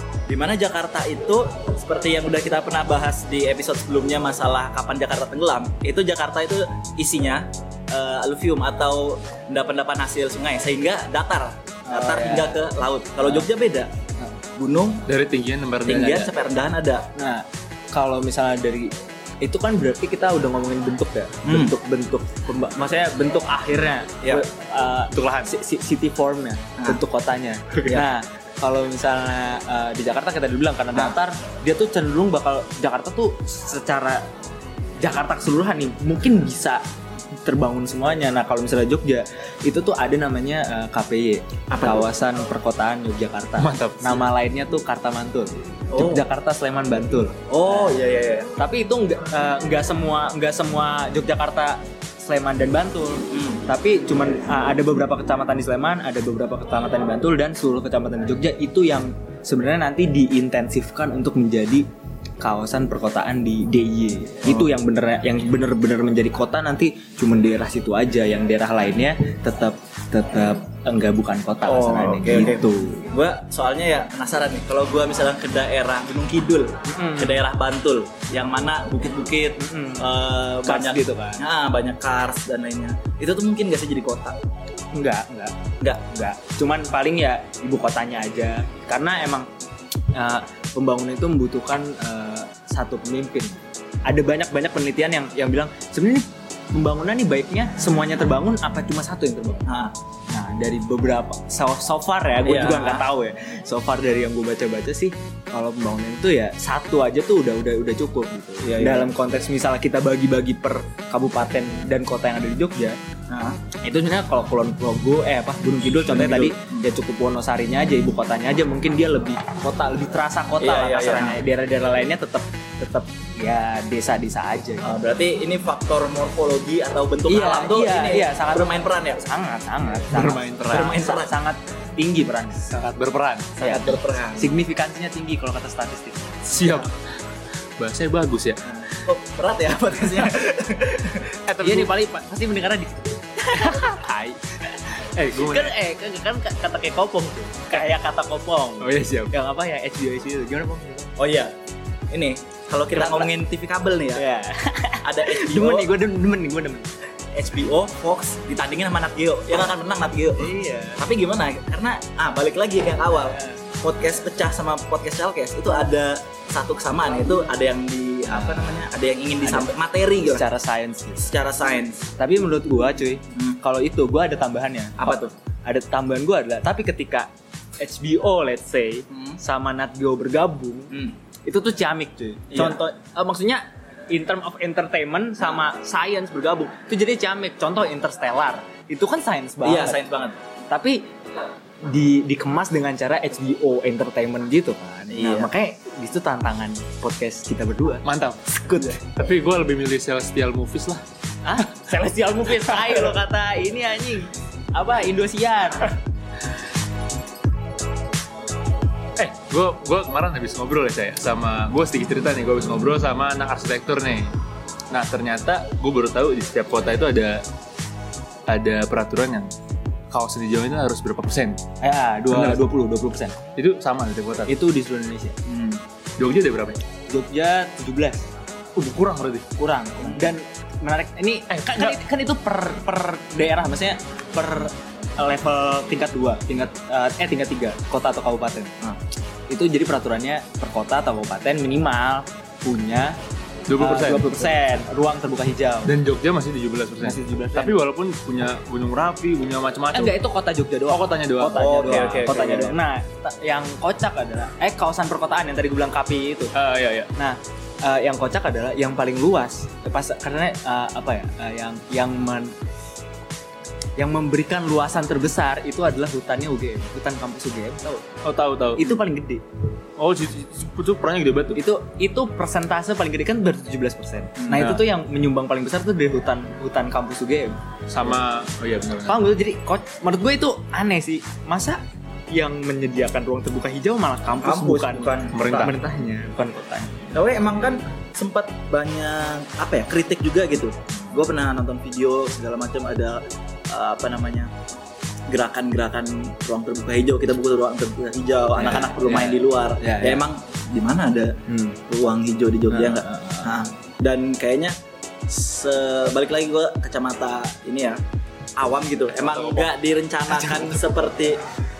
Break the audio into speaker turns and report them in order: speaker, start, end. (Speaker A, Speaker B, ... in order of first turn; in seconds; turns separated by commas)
Speaker A: 0.3-13.9, Speaker B: 11.8-12.6, Speaker B: 13.2-13.5, Speaker A: 14.6-15.0, Speaker C: 15.1-16.3, Speaker A: 15.8-17.1, Speaker B: 17.1-34.3, Speaker A: 21.4-21.8, Speaker A: 27.8-28.1, Speaker B: 35.0-36.8, Speaker B: 37.4-48.0, Speaker A: 41.7-42.0, Speaker C: 43.6-44.3, Speaker A: 45.9-46.2, Speaker A: 47.5-48.5, Speaker B: 48.6-61.9, Speaker A: 53.3-53.6, Speaker B: 62.4-73.0, Speaker A: 64.5-64.7, Speaker A: 71.7-84.4, Speaker B: 76.8-77.4, Speaker B: 79.6-80.1, Speaker B: 80.6-81.4, Speaker B: 84.9-89.5, Speaker B: 90.1-99.7, Speaker A: 99.7-99.9, Speaker B: 100.3-113.0, Speaker A: 102.4-103.1, Speaker A: 108.6-109.1, Speaker A: 113.3-113.6, Speaker B: 113.8-124.9, Speaker A: 116.1-116.8, Speaker A: 120.6-121.4, Speaker A: 124.8-129.2, Speaker B: 127.3-132.8, Speaker C: 130.1-131.0, Speaker A: 130.7-131.3, Speaker C: 132.7-133.6, Speaker A: 133.6-134.5, Speaker B: 133.6-136.3, Speaker C: 136.4-136.9, Speaker C: 137.8-138.6, Speaker A: 138.6-141.3, Speaker C: 141.5-141.9, Speaker B: 141.6-151.2, Speaker C: 143.6-144.3, Speaker C: 145.1-145.7, Speaker C: 148.8-149.3, Speaker A: 151.2-151.5, Speaker A: 152.1-154.2, Speaker B: 152.9-153.3, Speaker B: 154.1-156.9, Speaker A: 155.0-155.9, Speaker A: 157.3-170.4, Speaker B: 160.4-161.0, Speaker B: 163.3-163.6, Speaker B: 168.3-168.8, Speaker B: 169.4-171.3, Speaker A: 171.2-172.1, Speaker B: 172.2-180.9, Speaker A: 173.3-173.6, Speaker A: 175.0-175.3, Speaker A: 179.1-179.4, Speaker B: 181.4-190.0, Speaker A: 182.5-182.8, Speaker A: 189.6-190.4, Speaker B: 190.7-191.1, Speaker B: 191.8-199.0, Speaker A: 195.1-195.5, Speaker C: 198.0-198.4, Speaker C: 199.0-201.0, Speaker B: 201.4-205.9, Speaker C: 209.2-214.3, Speaker C: 214.9-217.4, Speaker C: 218.5-219.5, Speaker C: 220.1-221.6, Speaker B: 221.8-223.4, Speaker C: 222.3-222.7, Speaker C: 223.6-224.5, Speaker B: 224.5-225.4, Speaker A: 225.4-225.8, Speaker C: 226.2-226.8, Speaker B: 227.1-228.3, Speaker C: 228.8-229.4, Speaker B: 229.6-238.7, Speaker A: 230.0-230.3, Speaker C: 231.5-232.0, Speaker B: 239.5-243.2, Speaker C: 243.7-244.5, Speaker B: 243.8-245.9, Speaker C: 245.8-250.2, Speaker B: 247.0-247.8, Speaker B: 249.9-256.5, Speaker C: 250.9-252.6, Speaker A: 251.4-252.8, Speaker C: 256.5-257.1, Speaker B: 257.1-262.5, Speaker B: 264.0-268.1, Speaker C: 268.2-269.0, Speaker B: 268.8-269.4, Speaker C: 270.0-271.6, Speaker B: 271.5-278.1, Speaker A: 274.4-274.7, Speaker C: 274.6-274.8, Speaker C: 277.9-279.3, Speaker B: 279.1-287.0, Speaker A: 284.4-285.5, Speaker C: 285.3-285.8, Speaker A: 287.1-294.5, Speaker A: 295.3-304.8, Speaker B: 298.5-300.2, Speaker B: 301.5-301.8, Speaker B: 302.7-303.6, Speaker A: 305.3-308.0, Speaker A: 308.6-311.4, Speaker C: 309.2-309.6, Speaker B: 310.3-310.8